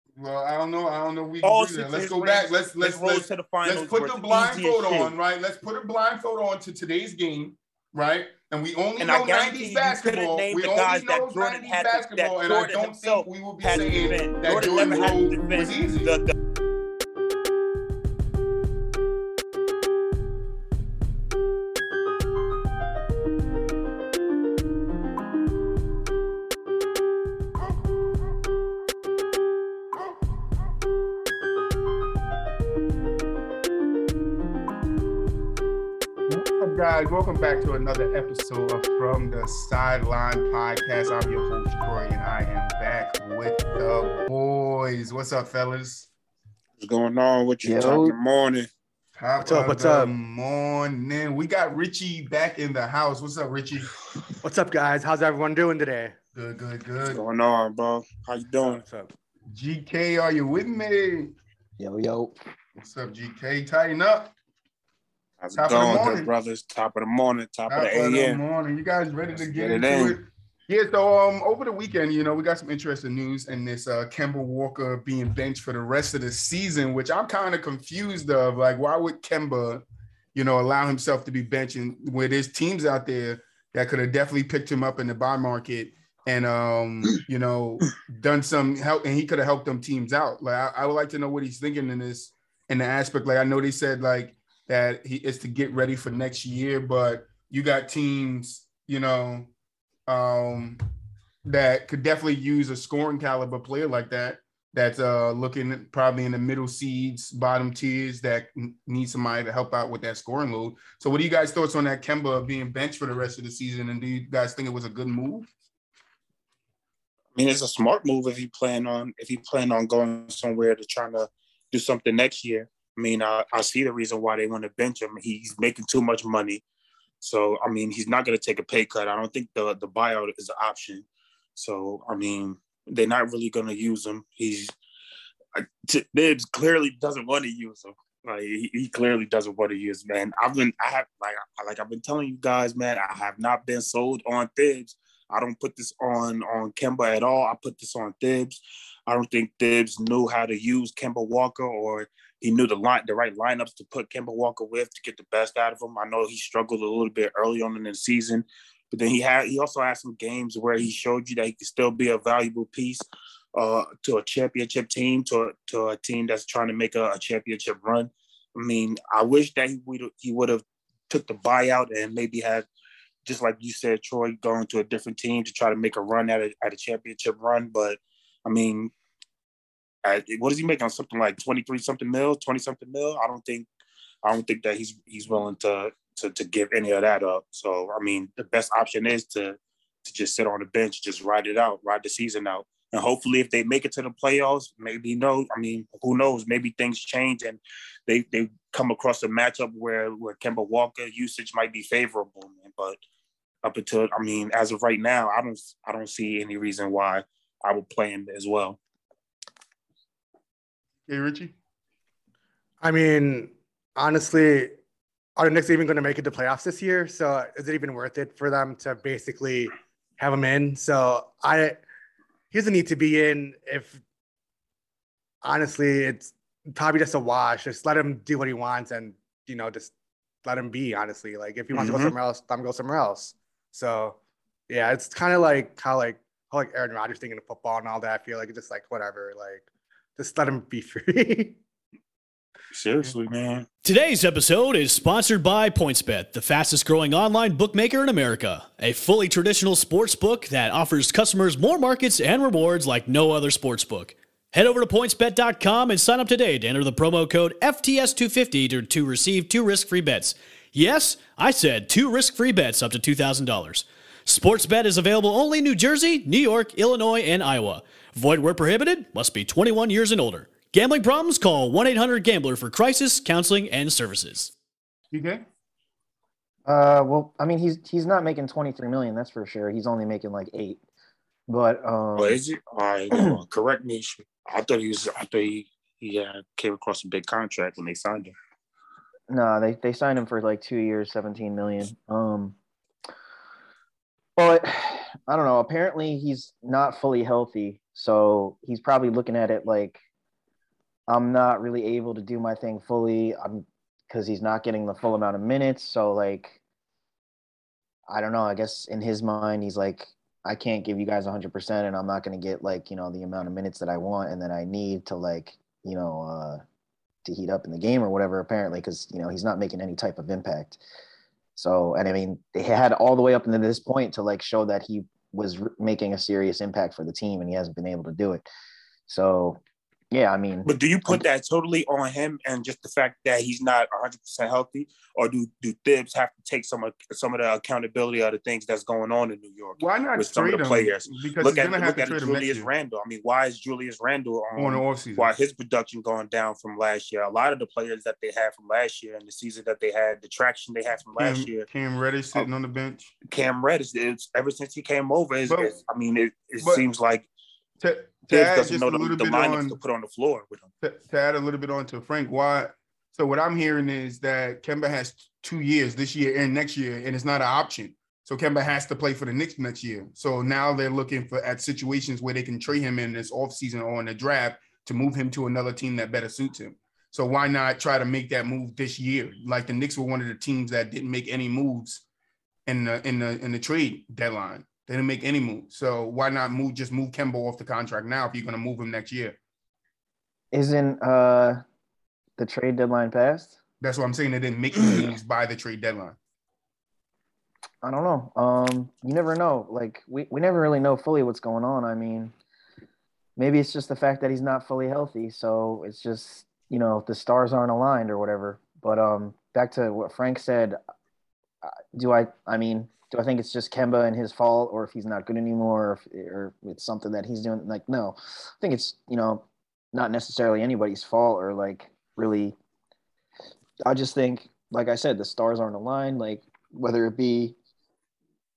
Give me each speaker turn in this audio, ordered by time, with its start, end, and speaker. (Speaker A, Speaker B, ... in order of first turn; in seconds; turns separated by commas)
Speaker A: 0.2-16.1, Speaker B: 1.4-5.1, Speaker B: 9.0-16.3, Speaker A: 36.3-46.1, Speaker B: 46.8-48.7, Speaker C: 47.6-48.2, Speaker A: 49.2-54.0, Speaker D: 49.4-50.1, Speaker D: 54.4-56.1, Speaker A: 56.4-57.2, Speaker B: 57.1-58.8, Speaker D: 58.6-59.1, Speaker A: 59.5-61.3, Speaker C: 61.8-62.3, Speaker A: 62.8-64.3, Speaker B: 65.4-68.4, Speaker A: 65.6-66.3, Speaker A: 67.7-79.8, Speaker B: 69.4-70.2, Speaker A: 80.3-99.5, Speaker A: 100.1-100.8, Speaker A: 101.5-115.5, Speaker B: 117.3-126.6, Speaker B: 127.2-134.7, Speaker B: 135.6-172.7, Speaker B: 173.2-178.9, Speaker B: 180.0-183.7, Speaker B: 184.2-203.0, Speaker B: 203.6-208.8, Speaker A: 211.1-211.5, Speaker D: 212.8-214.8, Speaker D: 215.4-221.8, Speaker D: 222.5-224.0, Speaker D: 225.4-229.9, Speaker D: 230.4-234.2, Speaker B: 231.7-232.1, Speaker D: 234.7-239.7, Speaker D: 240.2-241.6, Speaker B: 242.7-243.7, Speaker E: 243.8-274.5, Speaker A: 275.1-275.4, Speaker C: 276.7-280.8, Speaker C: 281.5-282.4, Speaker B: 282.2-288.4, Speaker C: 289.3-292.6, Speaker C: 294.4-300.0, Speaker C: 301.1-306.6, Speaker C: 308.1-316.6, Speaker C: 317.2-320.8, Speaker C: 321.6-328.4, Speaker C: 329.1-329.6, Speaker C: 330.1-331.2, Speaker B: 330.6-351.7, Speaker A: 339.8-342.7, Speaker A: 344.6-345.3, Speaker A: 351.2-353.1, Speaker B: 353.3-357.3, Speaker A: 355.5-355.8, Speaker A: 357.8-359.8, Speaker B: 358.3-360.7, Speaker A: 360.8-382.0, Speaker A: 382.7-389.4, Speaker C: 390.5-391.6, Speaker C: 392.4-393.6, Speaker A: 393.8-396.2, Speaker C: 397.8-402.3, Speaker C: 403.4-410.8, Speaker C: 411.9-422.6, Speaker C: 423.9-427.6